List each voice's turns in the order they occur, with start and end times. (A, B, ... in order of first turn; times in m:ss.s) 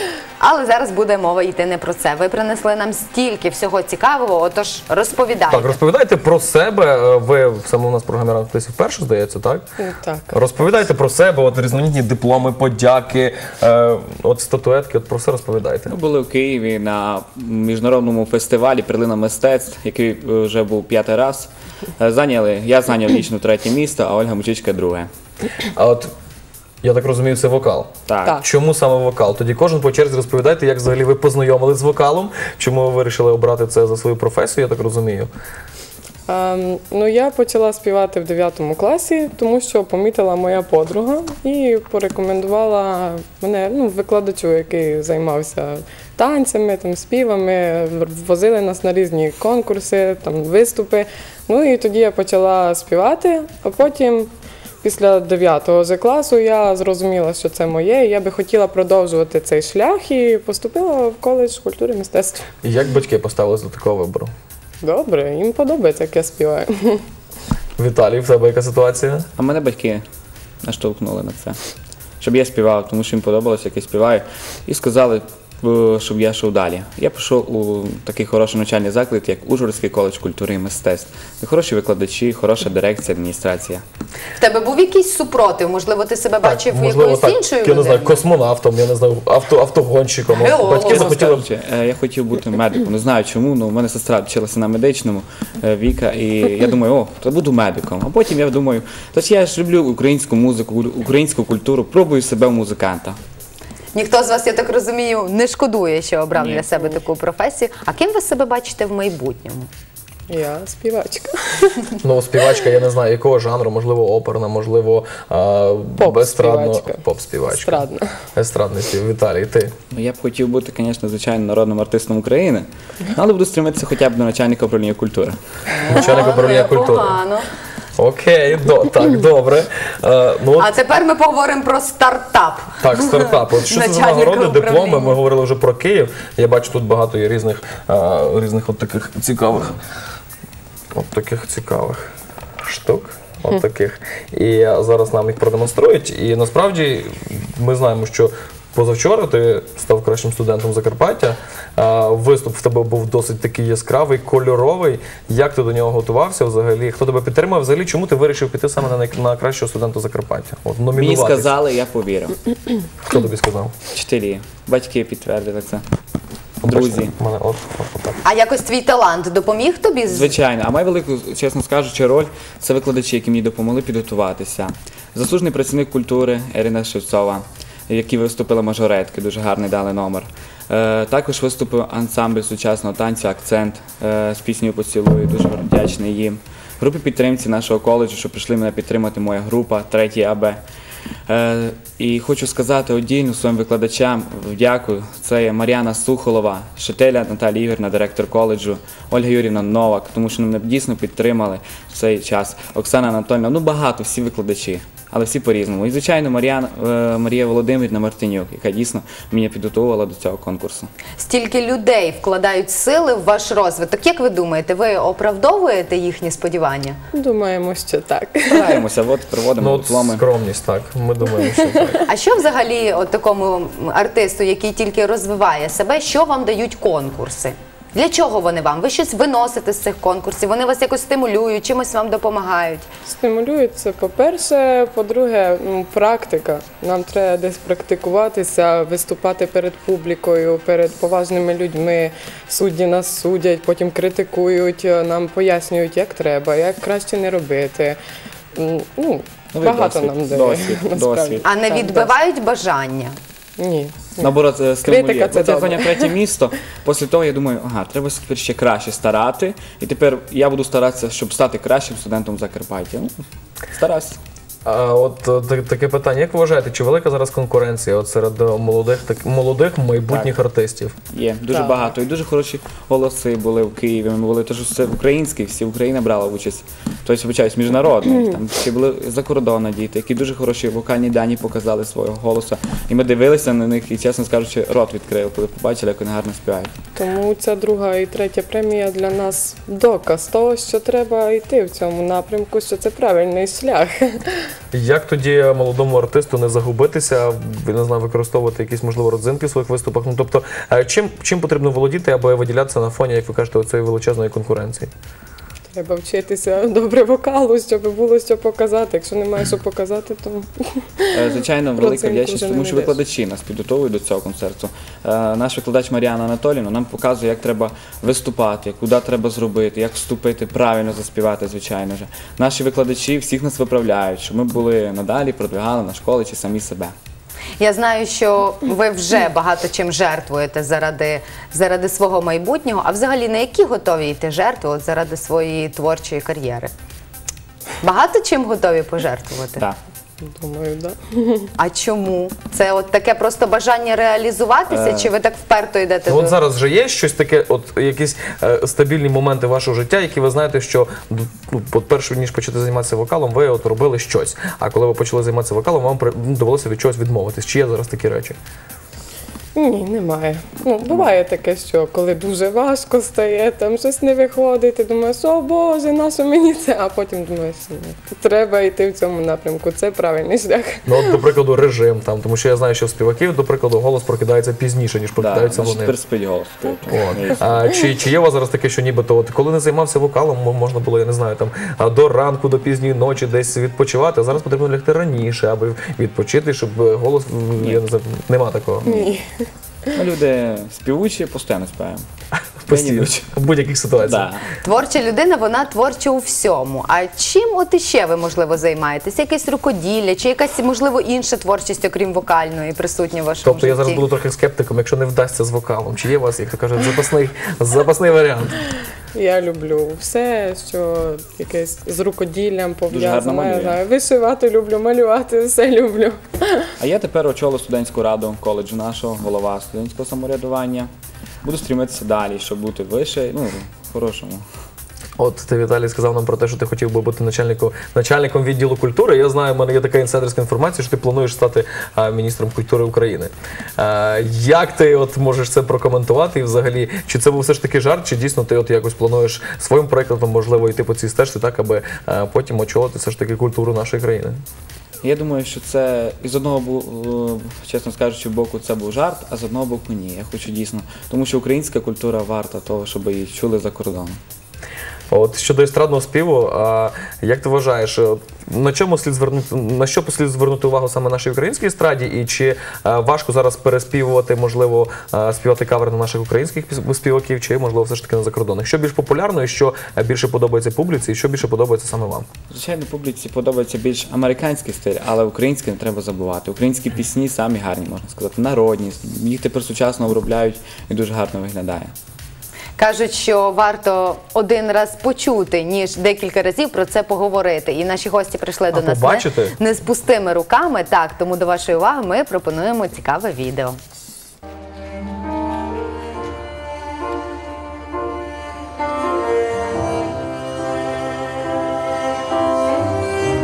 0:00.4-0:05.8 A
0:05.5-0:09.6 B
0:09.8-0:10.4 C
0:10.3-0:15.9 B
0:15.9-0:25.1 D
0:25.7-0:26.1 B
0:26.8-0:35.3 B
0:28.1-0:28.4 D
0:36.3-0:54.3 C
0:54.8-1:02.5 C
1:02.6-1:04.3 B
1:04.8-1:07.0 C
1:07.8-1:09.3 B
1:09.4-1:10.0 D
1:10.6-1:11.6 D
1:12.2-1:23.8 D
1:24.4-1:28.3 A
1:26.4-1:31.5 B
1:30.3-1:31.3 A
1:30.9-1:43.2 D
1:43.9-1:49.7 A
1:46.4-1:46.7 D
1:50.3-1:51.9 C
1:52.0-1:59.7 B
1:56.0-1:58.1 C
1:59.9-2:05.4 D
2:05.7-2:07.5 A
2:05.9-2:07.2 B
2:08.0-2:10.7 B
2:10.6-2:15.2 A
2:12.8-2:19.8 B
2:20.9-2:22.1 B
2:22.6-2:41.5 B
2:40.9-2:42.4 D
2:43.1-2:43.8 B
2:43.9-2:45.8 D
2:46.6-2:48.2 B
2:46.6-2:47.2 D
2:48.2-2:50.4 A
2:50.1-3:10.6 D
3:11.3-3:30.9 D
3:31.2-3:37.0 A
3:37.1-3:38.8 C
3:38.5-3:40.2 D
3:39.6-3:42.1 B
3:41.4-3:41.7 C
3:42.0-3:52.9 A
3:53.1-4:08.0 C
4:08.6-4:12.1 C
4:09.5-4:11.4 D
4:11.4-4:13.2 A
4:13.6-4:16.1 C
4:14.2-4:23.2 D
4:23.7-4:24.2 D
4:24.6-4:31.0 B
4:30.1-4:30.3 D
4:31.1-4:46.8 D
4:31.5-4:31.9 C
4:47.0-4:54.5 C
4:54.7-5:04.9 B
5:05.8-5:13.0 C
5:11.1-5:27.0 D
5:27.6-5:36.7 A
5:37.8-5:39.6 A
5:40.2-5:41.5 C
5:41.6-5:46.4 A
5:44.7-5:45.1 D
5:46.1-5:58.4 B
5:59.6-6:11.1 C
6:10.9-6:15.9 B
6:15.2-6:17.6 D
6:16.9-6:29.1 B
6:28.9-6:29.4 C
6:29.9-6:32.0 D
6:32.6-6:34.3 B
6:32.7-6:33.3 D
6:34.0-6:34.5 D
6:34.6-6:44.0 A
6:43.4-6:48.6 B
6:49.1-6:56.7 C
6:52.9-6:53.8 D
6:56.8-7:00.9 D
7:01.4-7:04.4 D
7:05.2-7:24.4 B
7:25.0-7:34.2 D
7:35.1-7:52.3 B
7:52.5-8:01.9 D
8:02.8-8:13.8 A
8:08.7-8:09.6 B